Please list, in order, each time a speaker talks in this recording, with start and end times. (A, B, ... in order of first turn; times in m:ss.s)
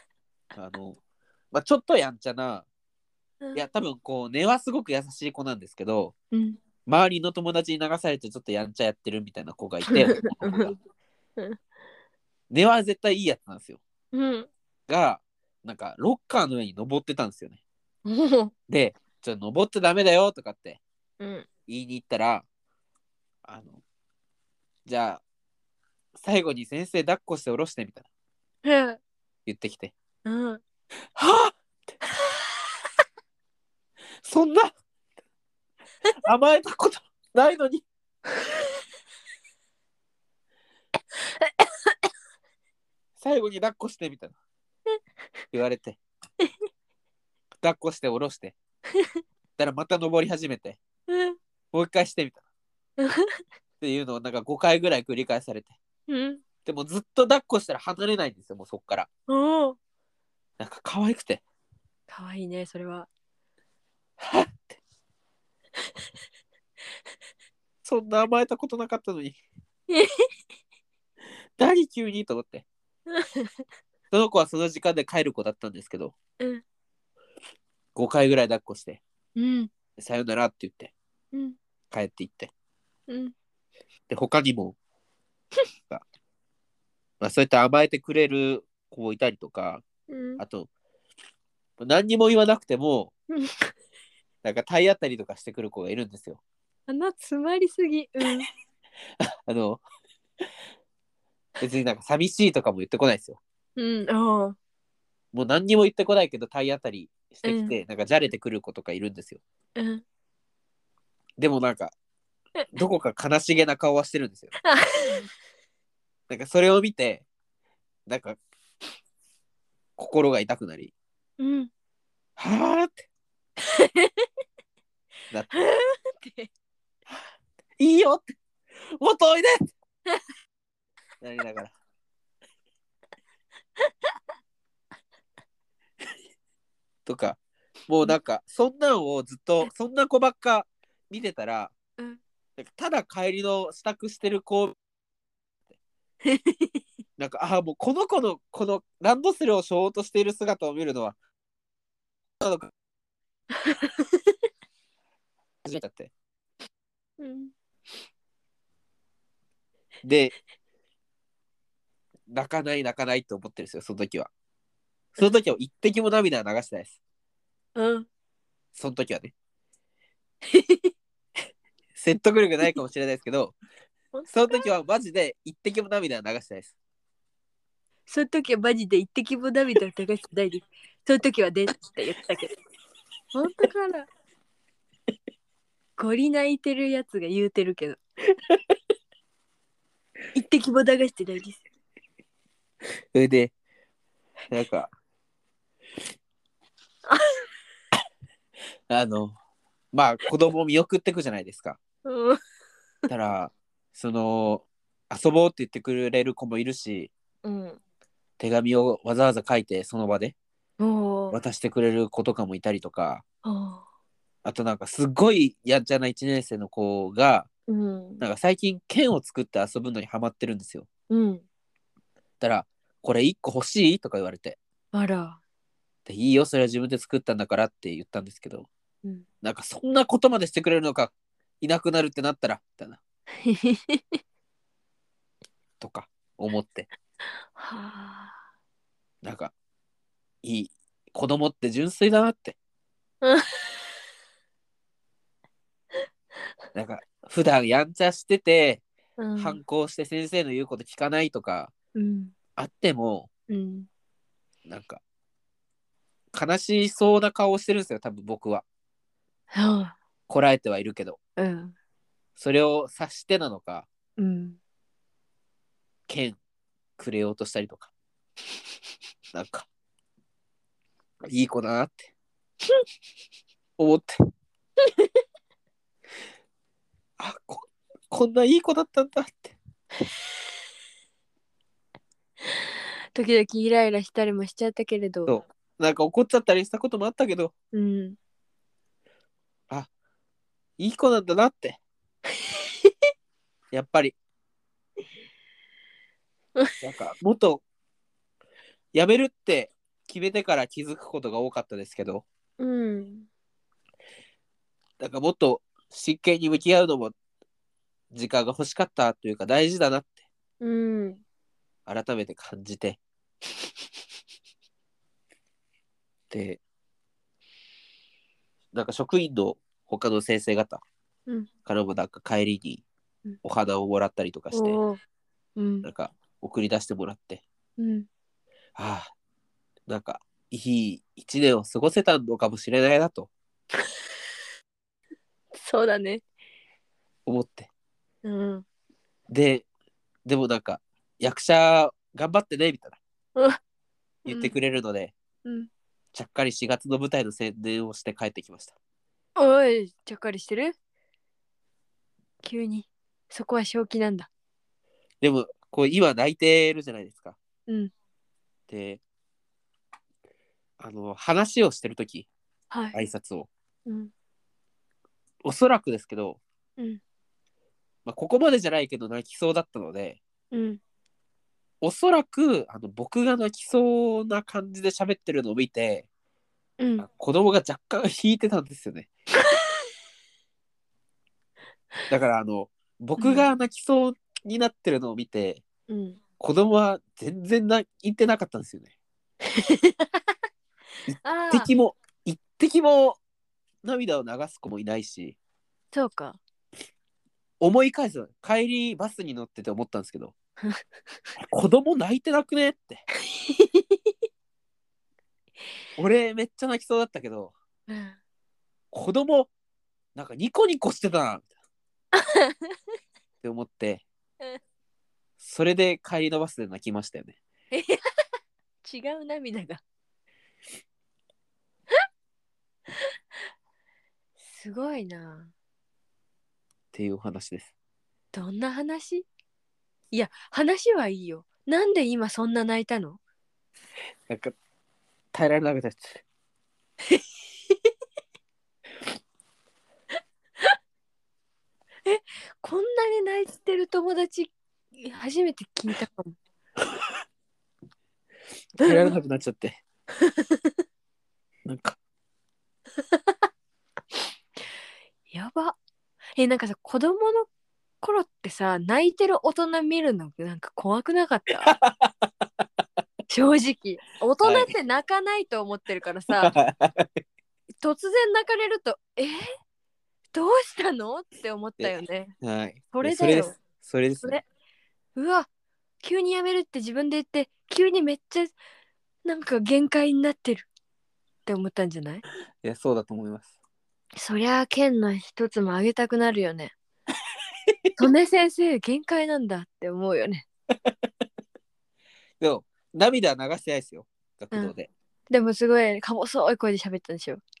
0:00.5-0:01.0 A
0:01.5-0:02.6 A
0:03.5-0:06.1 A
0:06.3-0:06.6 B
0:06.8-0:10.8 A
0:09.9-0:10.7 B
0:12.5-0:13.8 A
0:14.1-0:14.5 B
0:14.9-0:17.6 A
0:18.0-0:18.5 B
0:18.7-0:20.8 A
0:21.2-0:21.5 B
0:21.7-0:22.4 A
0:23.4-0:23.8 A
0:24.8-0:25.2 A
0:26.2-0:28.1 A
0:28.6-0:29.0 B
0:29.4-0:29.9 A
0:30.2-0:30.6 B
0:31.1-0:31.6 A
0:34.2-0:34.7 A
0:36.2-0:37.8 A
0:41.4-0:41.9 B
0:43.2-0:44.4 A
0:45.5-0:46.0 A
0:47.6-0:48.5 A
0:49.6-0:50.8 A
0:51.1-0:51.4 B
0:51.7-0:52.4 A
0:53.0-0:53.4 B
0:53.8-0:55.8 A
0:56.1-0:56.4 B
0:56.6-0:59.1 A
0:59.3-0:59.8 B
1:00.6-1:01.4 A
1:02.1-1:03.1 B
1:04.2-1:04.8 A
1:07.8-1:09.4 A
1:09.9-1:10.3 B
1:11.6-1:12.6 A
1:13.1-1:13.5 B
1:14.1-1:16.1 A
1:17.9-1:19.0 A
1:19.4-1:19.7 B
1:20.0-1:20.9 A
1:21.9-1:22.5 A
1:23.1-1:23.3 B
1:24.1-1:24.8 A
1:27.2-1:29.8 A
1:30.1-1:30.4 B
1:30.4-1:30.7 A
1:31.8-1:33.1 A
1:33.3-1:33.7 B
1:34.4-1:36.4 A
1:36.9-1:38.5 B
1:39.2-1:39.8 A
1:41.6-1:43.4 A
1:43.8-1:44.6 B
1:45.3-1:49.4 A
1:47.4-1:47.8 B
1:49.8-1:50.0 B
1:51.4-1:51.9 A
1:52.7-1:54.5 A
1:54.6-1:55.2 B
1:56.3-1:57.2 A
1:58.1-1:58.4 A
2:00.0-2:00.9 A
2:01.4-2:01.7 B
2:02.4-2:03.0 A
2:03.6-2:04.3 B
2:05.3-2:05.6 A
2:05.5-2:06.5 B
2:07.8-2:08.3 A
2:09.0-2:09.6 A
2:11.2-2:11.7 A
2:13.8-2:14.2 B
2:17.0-2:21.7 A
2:22.6-2:24.8 A
2:26.2-2:26.8 B
2:27.2-2:31.2 A
2:32.4-2:32.7 A
2:33.6-2:34.3 B
2:35.6-2:36.1 A
2:37.2-2:37.5 B
2:40.0-2:40.3 A
2:42.3-2:44.3 A
2:45.1-2:47.0 A
2:47.8-2:48.1 B
2:48.7-2:49.3 A
2:50.4-2:50.9 B
2:52.0-2:53.6 A
2:54.1-2:54.7 B
2:54.3-2:56.7 A
2:58.1-3:02.5 B
3:03.3-3:04.1 B
3:06.0-3:08.0 B
3:10.3-3:11.6 B
3:13.1-3:13.5 A
3:14.5-3:14.9 A
3:17.1-3:17.4 B
3:18.9-3:19.4 A
3:19.9-3:21.8 A
3:22.0-3:22.4 B
3:23.1-3:27.1 A
3:27.4-3:27.8 B
3:28.4-3:30.3 A
3:30.8-3:31.4 B
3:31.3-3:33.2 A
3:33.4-3:33.8 B
3:34.4-3:37.5 A
3:37.7-3:38.2 B
3:38.2-3:40.9 A
3:41.1-3:41.4 B
3:42.4-3:44.6 A
3:44.9-3:45.4 B
3:46.0-3:48.7 A
3:49.4-3:53.0 A
3:53.4-3:54.2 B
3:55.8-3:56.9 A
3:57.6-3:58.4 B
3:59.2-3:59.5 A
4:00.4-4:02.6 A
4:03.2-4:03.8 B
4:06.7-4:08.8 A
4:09.2-4:09.6 B
4:09.4-4:11.7 A
4:11.9-4:12.3 B
4:12.6-4:13.3 A
4:13.5-4:13.9 B
4:14.6-4:15.0 A
4:16.3-4:18.6 A
4:19.5-4:20.0 B
4:20.3-4:21.2 A
4:21.4-4:21.7 B
4:22.4-4:23.9 A
4:24.2-4:24.6 B
4:26.1-4:26.4 A
4:27.0-4:27.9 A
4:29.3-4:29.7 A
4:31.2-4:32.1 A
4:33.8-4:34.1 A
4:34.8-4:35.2 B
4:37.2-4:39.6 A
4:43.1-4:45.3 B
4:45.2-4:47.5 A
4:47.7-4:48.2 B
4:50.8-4:51.8 A
4:52.5-4:52.9 B
4:53.7-4:54.2 A
4:56.8-4:57.6 A
4:58.9-5:02.2 A
5:02.6-5:03.3 B
5:05.0-5:07.1 A
5:08.1-5:10.2 A
5:10.6-5:11.2 B
5:11.9-5:13.0 A
5:16.3-5:16.6 A
5:18.7-5:20.8 A
5:21.6-5:22.8 A
5:23.4-5:24.8 A
5:24.5-5:25.0 B
5:25.6-5:25.8 B
5:25.8-5:27.4 A
5:27.8-5:28.1 B
5:28.8-5:29.1 A
5:29.9-5:33.3 A
5:35.5-5:36.2 B
5:37.2-5:37.7 A
5:38.2-5:38.6 B
5:39.3-5:39.6 A
5:40.2-5:43.0 A
5:44.2-5:45.1 A
5:44.3-5:44.5 B
5:45.4-5:45.7 B
5:46.1-5:48.8 A
5:49.4-5:50.8 B
5:52.4-5:54.3 B
5:55.2-5:57.4 A
5:57.7-5:57.9 B
5:58.7-5:59.0 A
6:00.8-6:02.3 A
6:02.9-6:03.5 A
6:03.8-6:04.1 B
6:05.4-6:06.4 A
6:08.0-6:10.2 A
6:10.5-6:10.8 B
6:11.8-6:16.1 A
6:16.8-6:17.0 B
6:17.0-6:19.1 A
6:22.1-6:25.6 A
6:23.2-6:23.5 B
6:25.9-6:26.2 B
6:26.4-6:28.9 A
6:29.5-6:30.2 B
6:31.2-6:31.7 B
6:31.5-6:33.2 A
6:33.8-6:35.4 A
6:35.9-6:36.4 B
6:37.6-6:40.3 A
6:41.5-6:43.0 A
6:43.3-6:44.1 B
6:46.0-6:47.5 A
6:47.9-6:48.2 B
6:48.9-6:49.5 A
6:50.1-6:51.4 A
6:52.1-6:52.7 B
6:53.4-6:54.0 A
6:55.4-6:57.4 A
6:57.7-6:58.0 B
6:58.8-6:59.8 B
7:04.4-7:05.5 B
7:06.9-7:07.7 A
7:08.3-7:09.2 B
7:10.1-7:13.2 B
7:14.3-7:14.6 A
7:15.3-7:16.2 A
7:17.1-7:17.9 B
7:22.0-7:26.4 B
7:28.8-7:29.1 B
7:28.8-7:29.8 A
7:30.2-7:30.7 B
7:31.6-7:32.0 A
7:33.0-7:33.3 B
7:35.3-7:35.8 B
7:36.4-7:37.5 B
7:38.0-7:41.7 B
7:41.6-7:42.1 A
7:43.3-7:46.5 B
7:44.4-7:44.7 A
7:46.4-7:47.2 A
7:47.8-7:49.5 B
7:50.3-7:52.3 B
7:51.8-7:54.4 A
7:52.9-7:53.6 B
7:55.2-7:55.5 B
7:56.0-7:58.5 B
7:59.2-8:00.7 B
8:01.4-8:02.2 B
8:02.6-8:03.5 A
8:04.2-8:06.7 B
8:08.0-8:10.4 B
8:12.4-8:14.9 A
8:15.3-8:17.4 B